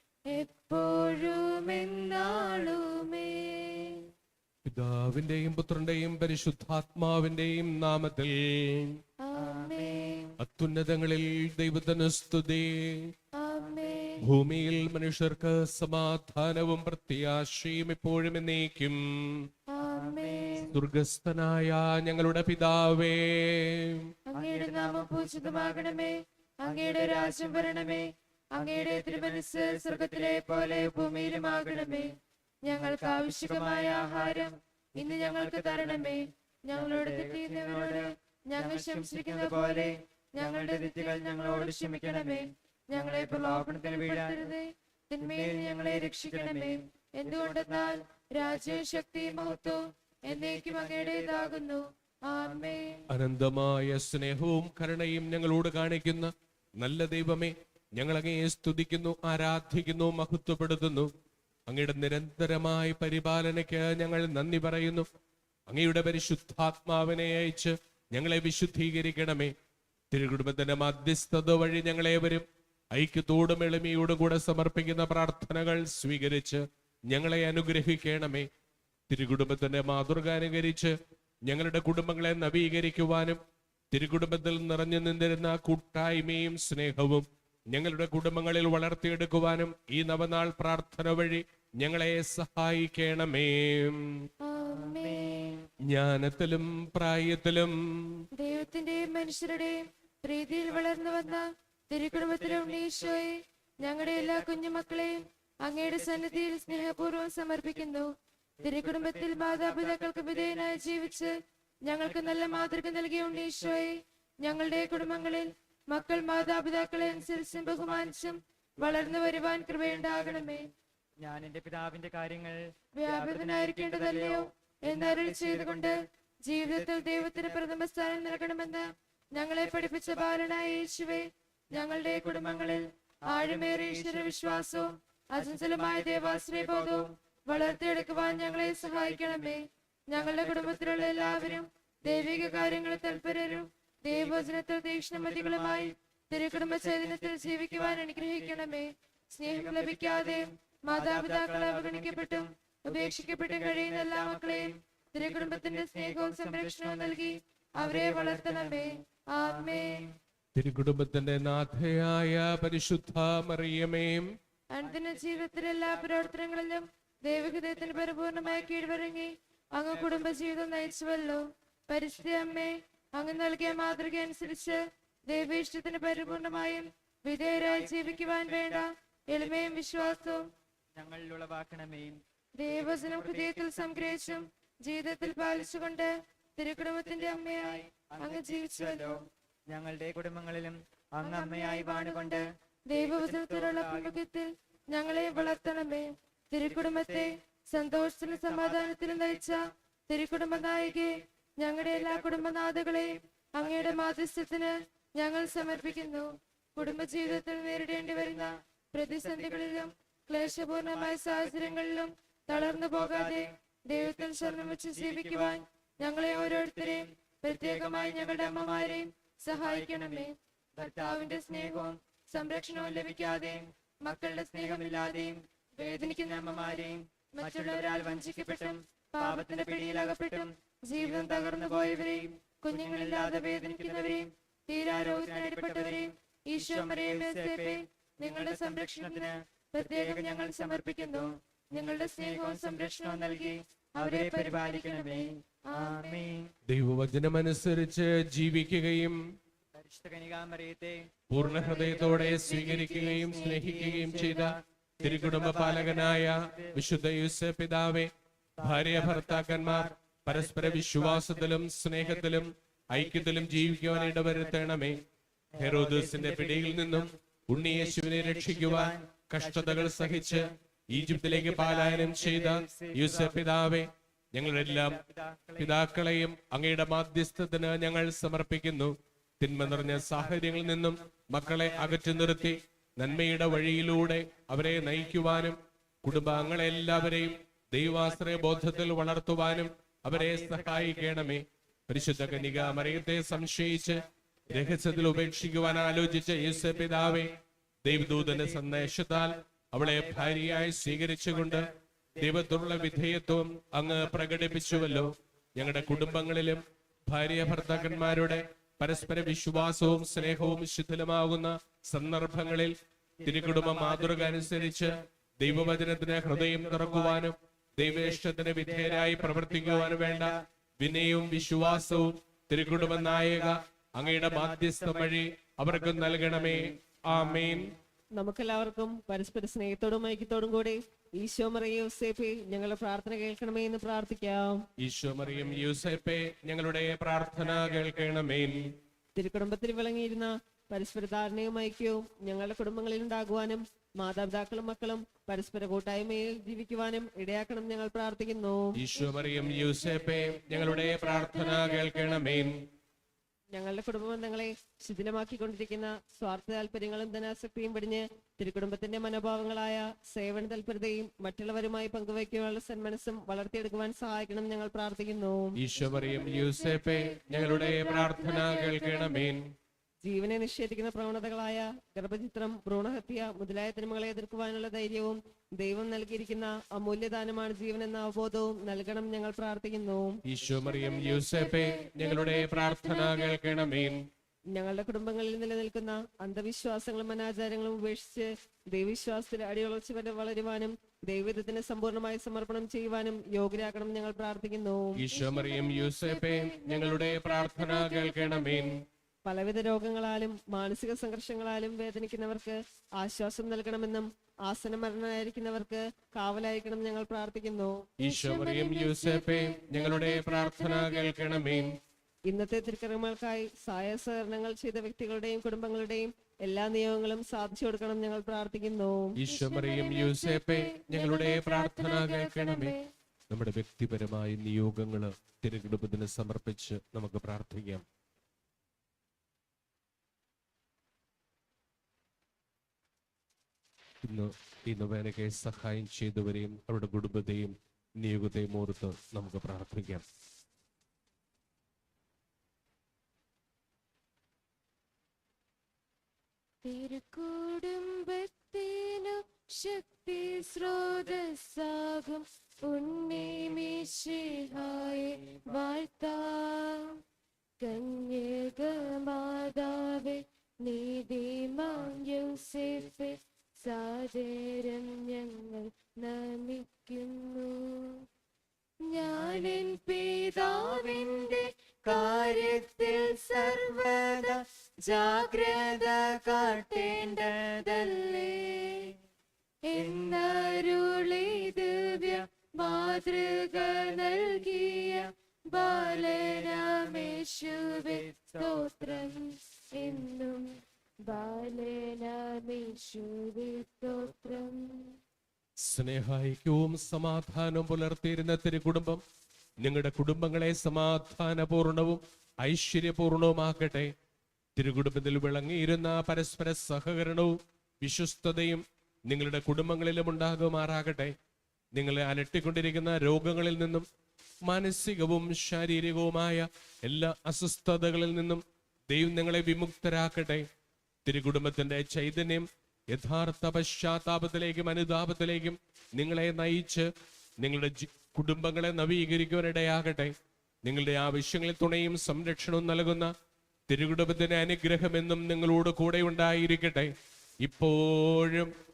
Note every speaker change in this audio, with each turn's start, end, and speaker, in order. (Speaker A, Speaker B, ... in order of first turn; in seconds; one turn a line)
Speaker A: 0.3-4.0
Speaker B: 2.1-2.7
Speaker C: 4.7-9.0
Speaker A: 9.2-10.2
Speaker B: 9.4-10.3
Speaker C: 10.4-13.1
Speaker A: 13.4-14.3
Speaker C: 14.2-19.5
Speaker A: 19.7-20.8
Speaker B: 20.0-20.6
Speaker C: 20.7-24.1
Speaker A: 24.3-28.0
Speaker B: 24.4-26.0
Speaker B: 26.7-28.0
Speaker A: 28.5-32.1
Speaker B: 28.6-32.1
Speaker A: 32.6-53.0
Speaker B: 32.7-44.5
Speaker B: 45.2-49.8
Speaker B: 50.3-51.6
Speaker C: 53.1-61.1
Speaker C: 61.7-65.1
Speaker C: 65.7-69.5
Speaker C: 70.1-78.5
Speaker C: 79.1-83.4
Speaker C: 83.9-94.2
Speaker A: 94.4-95.4
Speaker B: 94.8-95.7
Speaker C: 95.9-98.2
Speaker A: 98.3-120.7
Speaker B: 100.7-101.4
Speaker B: 102.1-103.2
Speaker B: 103.8-104.6
Speaker B: 105.9-106.5
Speaker B: 108.6-111.1
Speaker B: 112.0-113.8
Speaker B: 117.0-118.1
Speaker B: 118.8-120.6
Speaker B: 121.2-126.0
Speaker A: 122.9-160.0
Speaker B: 126.6-127.8
Speaker B: 129.7-130.3
Speaker B: 131.7-134.5
Speaker B: 135.3-139.6
Speaker B: 140.1-143.5
Speaker B: 144.1-144.5
Speaker B: 145.1-145.9
Speaker B: 146.5-148.7
Speaker B: 149.4-160.2
Speaker C: 160.5-164.3
Speaker A: 164.7-180.5
Speaker B: 164.8-166.3
Speaker B: 167.3-169.1
Speaker B: 169.8-171.4
Speaker B: 172.4-172.6
Speaker B: 173.3-174.8
Speaker B: 177.5-178.9
Speaker B: 179.4-184.4
Speaker A: 182.6-189.2
Speaker B: 185.2-185.8
Speaker B: 186.9-194.2
Speaker A: 191.2-246.2
Speaker B: 196.6-197.4
Speaker B: 198.3-199.6
Speaker B: 200.5-201.2
Speaker B: 201.8-202.7
Speaker B: 203.6-204.2
Speaker B: 205.4-208.5
Speaker B: 209.0-209.9
Speaker B: 210.4-211.8
Speaker B: 212.5-222.0
Speaker B: 222.8-234.3
Speaker B: 234.8-246.5
Speaker C: 246.7-249.2
Speaker B: 249.8-253.1
Speaker C: 251.3-265.0
Speaker A: 251.8-254.5
Speaker B: 253.6-257.0
Speaker B: 258.6-265.0
Speaker B: 265.5-273.4
Speaker C: 265.6-275.0
Speaker B: 274.4-275.9
Speaker C: 275.6-297.3
Speaker B: 279.6-282.6
Speaker B: 283.2-285.6
Speaker B: 286.1-291.4
Speaker B: 292.0-306.3
Speaker C: 297.8-327.7
Speaker B: 307.2-310.6
Speaker B: 313.2-322.1
Speaker B: 322.6-327.8
Speaker D: 328.2-334.6
Speaker C: 334.8-338.7
Speaker B: 337.3-338.0
Speaker D: 339.1-348.8
Speaker C: 348.8-352.6
Speaker A: 349.0-352.6
Speaker D: 353.5-365.6
Speaker C: 365.6-369.4
Speaker A: 365.8-369.4
Speaker D: 370.1-380.2
Speaker C: 380.3-384.0
Speaker A: 380.6-384.0
Speaker D: 384.5-395.0
Speaker C: 395.0-398.8
Speaker A: 395.1-398.9
Speaker D: 399.2-407.9
Speaker A: 408.0-411.8
Speaker C: 408.0-411.8
Speaker D: 412.3-419.2
Speaker C: 419.2-422.8
Speaker A: 419.2-422.9
Speaker C: 423.3-427.9
Speaker C: 434.0-440.0
Speaker A: 446.6-457.0
Speaker A: 457.6-468.1
Speaker A: 468.9-473.8
Speaker B: 469.2-469.7
Speaker B: 470.4-478.8
Speaker A: 475.6-475.9
Speaker A: 476.4-478.4
Speaker A: 479.6-490.5
Speaker B: 479.8-480.6
Speaker B: 483.7-484.0
Speaker B: 485.6-489.2
Speaker A: 491.0-495.0
Speaker C: 495.6-499.0
Speaker C: 499.6-503.9
Speaker C: 504.6-511.1
Speaker C: 511.7-513.9
Speaker C: 514.5-520.5
Speaker C: 521.0-526.9
Speaker C: 527.4-530.1
Speaker C: 530.6-533.1
Speaker C: 533.7-538.5